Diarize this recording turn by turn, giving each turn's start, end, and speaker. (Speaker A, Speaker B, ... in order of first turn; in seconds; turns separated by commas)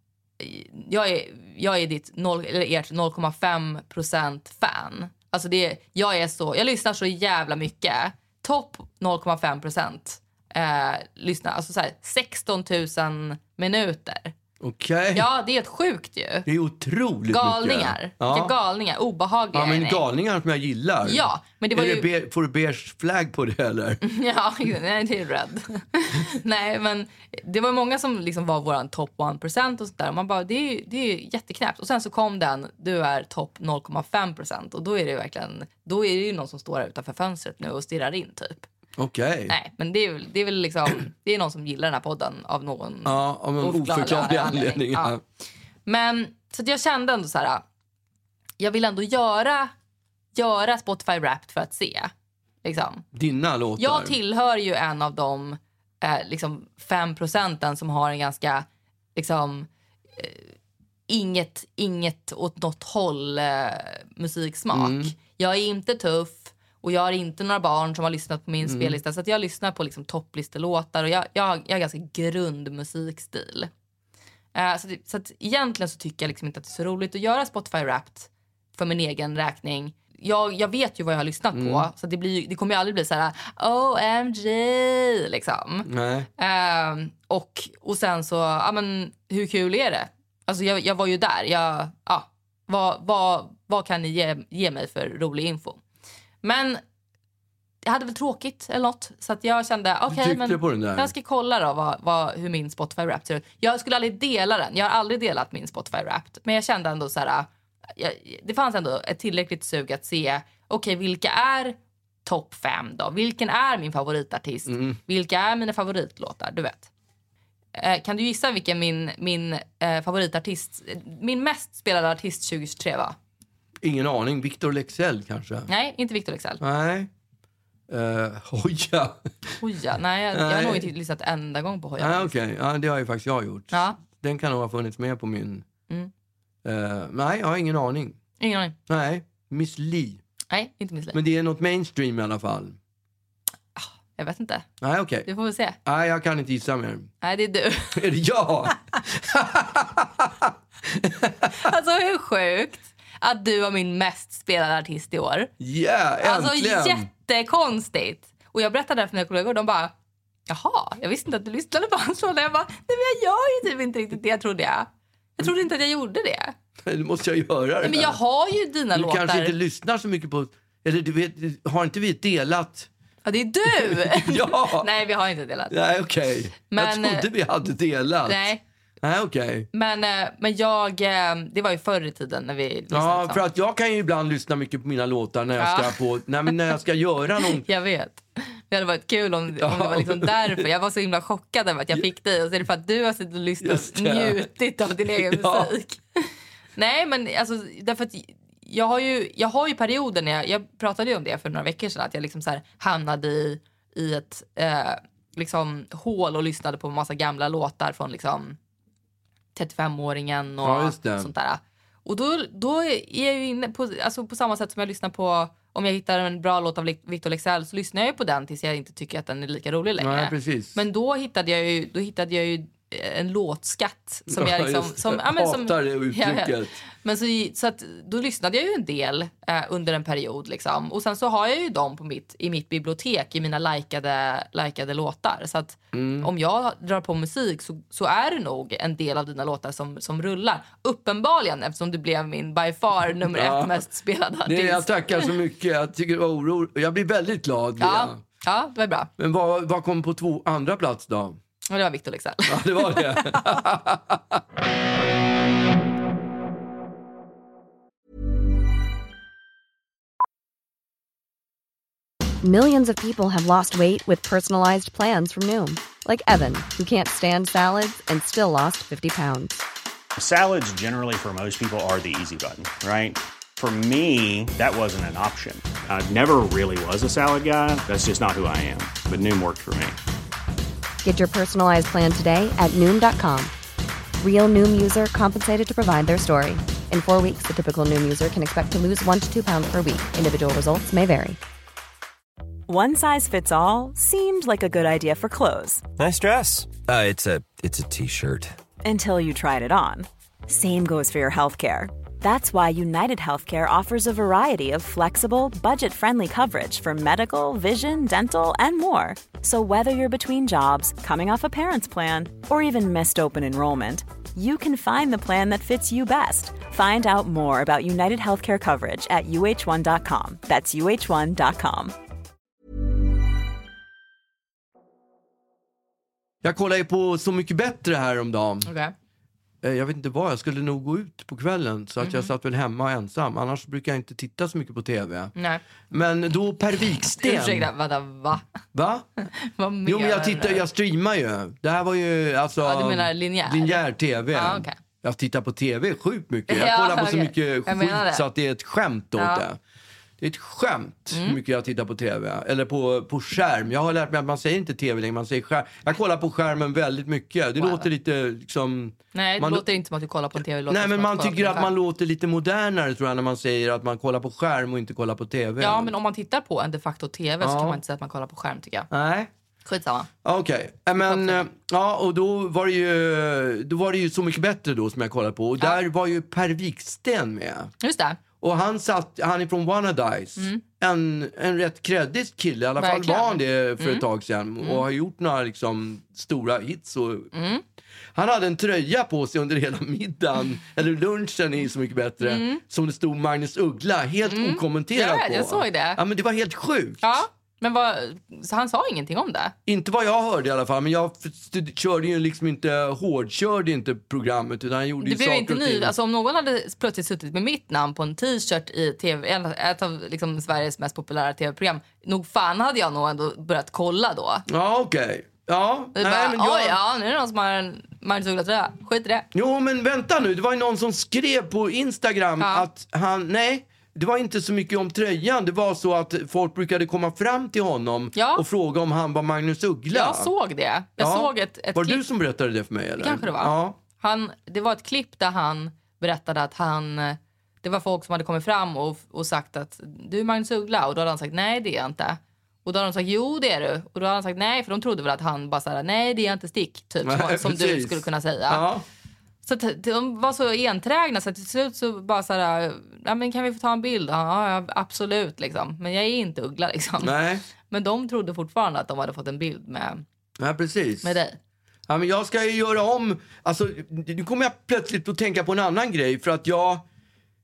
Speaker A: 0.4-14.3, Speaker B: 14.6-15.3, Speaker A: 15.1-16.5, Speaker B: 16.4-18.5, Speaker A: 17.3-20.0, Speaker B: 19.5-24.0, Speaker A: 21.0-22.1, Speaker A: 24.0-38.7, Speaker B: 39.0-39.5, Speaker A: 39.5-45.2, Speaker B: 43.0-45.2, Speaker A: 45.9-47.6, Speaker A: 48.6-49.7, Speaker A: 50.3-52.1, Speaker A: 52.6-53.0, Speaker B: 53.1-54.1, Speaker A: 53.8-60.5, Speaker A: 61.1-73.7, Speaker B: 64.7-65.1, Speaker B: 68.6-69.0, Speaker A: 74.5-95.8, Speaker B: 81.5-81.9, Speaker B: 85.8-86.3, Speaker A: 96.4-96.8, Speaker A: 97.8-116.9, Speaker B: 100.1-101.1, Speaker B: 114.7-115.0, Speaker A: 117.7-123.1, Speaker B: 123.8-125.7, Speaker A: 125.7-126.6, Speaker B: 126.6-127.1, Speaker B: 127.9-129.6, Speaker A: 129.6-132.3, Speaker B: 130.3-130.9, Speaker B: 132.0-135.7, Speaker A: 133.7-134.0, Speaker B: 136.6-138.2, Speaker A: 138.4-138.8, Speaker B: 138.9-140.2, Speaker A: 140.5-141.2, Speaker B: 141.1-142.8, Speaker A: 143.8-144.7, Speaker B: 144.8-145.3, Speaker A: 145.2-145.8, Speaker B: 145.8-147.1, Speaker A: 147.2-148.1, Speaker B: 147.9-151.6, Speaker A: 151.5-155.5, Speaker B: 155.6-157.1, Speaker A: 156.2-159.9, Speaker A: 160.5-166.5, Speaker B: 166.8-168.2, Speaker A: 167.8-169.5, Speaker B: 168.9-172.9, Speaker A: 173.2-175.8, Speaker B: 173.7-174.9, Speaker B: 175.7-179.7, Speaker A: 176.7-177.3, Speaker A: 178.3-178.6, Speaker A: 179.7-183.4, Speaker B: 182.9-187.6, Speaker A: 185.6-186.0, Speaker A: 187.4-208.6, Speaker B: 189.6-190.6, Speaker B: 193.6-194.5, Speaker B: 195.1-195.7, Speaker A: 209.5-245.3, Speaker B: 210.6-211.3, Speaker B: 220.0-220.8, Speaker B: 224.3-226.8, Speaker B: 235.9-236.3, Speaker B: 243.2-243.8, Speaker B: 244.4-248.2, Speaker A: 247.8-249.1, Speaker B: 249.2-251.4, Speaker A: 251.7-253.6, Speaker B: 252.5-254.4, Speaker C: 262.4-269.6, Speaker D: 270.2-280.0, Speaker C: 281.0-283.5, Speaker C: 284.2-291.4, Speaker E: 292.7-295.8, Speaker F: 296.0-298.5, Speaker E: 298.8-321.9, Speaker B: 326.4-328.7, Speaker A: 328.6-328.9, Speaker B: 329.6-335.3, Speaker A: 332.0-332.3, Speaker A: 335.4-335.6, Speaker B: 335.9-337.7, Speaker A: 337.1-338.4, Speaker B: 338.7-339.1, Speaker A: 339.2-340.6, Speaker B: 339.8-349.6, Speaker A: 342.6-344.8, Speaker A: 346.5-348.2, Speaker A: 349.1-349.4, Speaker B: 350.2-359.7, Speaker A: 351.1-351.4, Speaker A: 357.6-357.9, Speaker A: 359.1-361.7, Speaker B: 360.7-365.9, Speaker A: 365.6-368.9, Speaker B: 367.4-367.8, Speaker B: 368.9-369.3, Speaker A: 369.6-370.1, Speaker B: 370.2-377.7, Speaker A: 371.0-371.4, Speaker A: 377.8-378.2, Speaker B: 378.4-387.3, Speaker A: 380.4-380.6, Speaker A: 382.8-384.1, Speaker A: 387.3-387.6, Speaker B: 388.1-397.0, Speaker A: 392.2-392.6, Speaker A: 394.2-396.0, Speaker A: 397.0-399.5, Speaker B: 399.6-405.9, Speaker A: 405.0-414.4, Speaker B: 414.5-416.8, Speaker A: 415.9-419.2, Speaker B: 419.3-430.3, Speaker A: 422.4-422.7, Speaker A: 428.1-428.4, Speaker A: 429.9-432.0, Speaker B: 431.0-433.8, Speaker A: 433.0-448.6, Speaker B: 447.0-448.8, Speaker A: 449.4-457.1, Speaker B: 457.0-457.4, Speaker A: 457.7-460.0, Speaker B: 460.4-461.2, Speaker A: 461.0-461.4, Speaker B: 461.9-466.8